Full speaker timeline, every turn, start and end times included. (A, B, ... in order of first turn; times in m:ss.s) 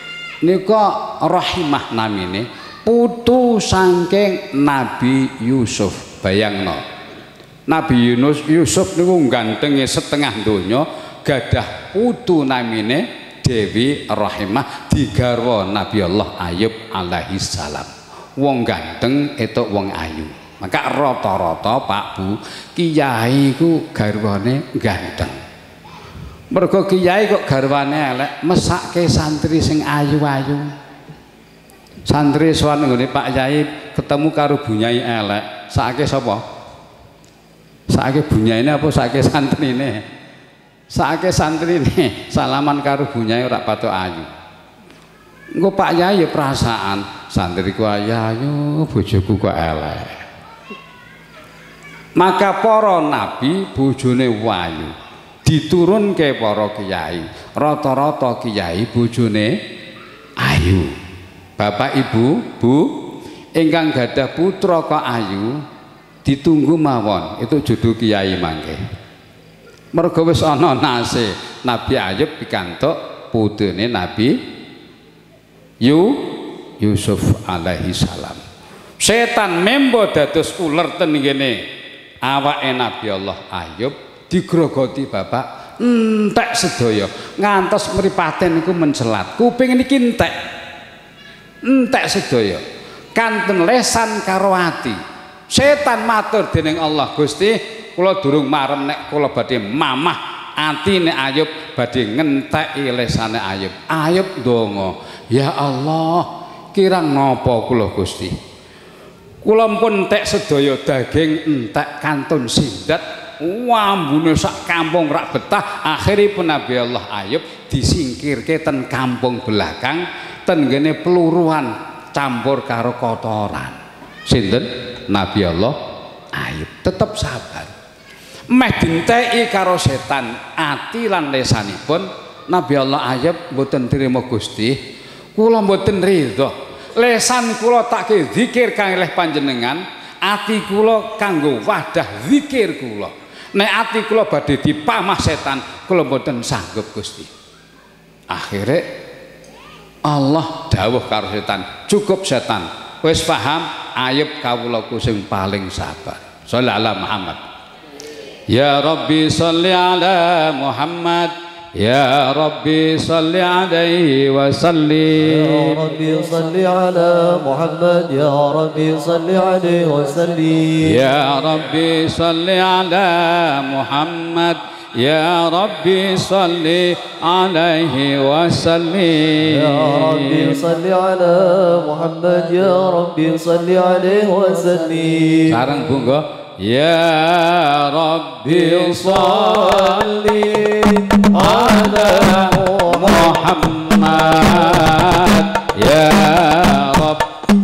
0:00.4-0:06.8 A
0:07.7-0:25.4 A
0:26.5-0:30.7 A
0:32.0-0:36.4 A
0:37.9-0:40.0 A
0:40.9-0:44.3 A
0:45.6-0:50.2 A
0:52.2-0:54.9 A
0:55.4-0:59.6 A
1:00.4-1:00.9 A
1:01.6-1:03.0 A
1:03.6-1:05.6 A
1:06.2-1:08.8 A
1:09.9-1:14.4 A
1:15.8-1:18.4 A
1:19.0-1:21.6 A
1:22.2-1:30.3 A
1:31.6-1:32.6 A
1:33.1-1:35.0 A
1:35.5-1:48.4 A
1:49.4-2:05.8 A
2:06.3-2:07.7 A
2:08.5-2:14.8 A
2:15.4-2:27.3 A
2:28.3-2:28.9 A
2:30.0-2:37.4 A
2:38.5-2:45.9 A
2:45.2-2:51.0 B
2:50.8-3:00.6 A
2:59.4-3:05.7 B
3:05.5-3:10.1 A
3:08.4-3:13.5 B
3:11.4-3:17.2 A
3:14.3-3:14.8 B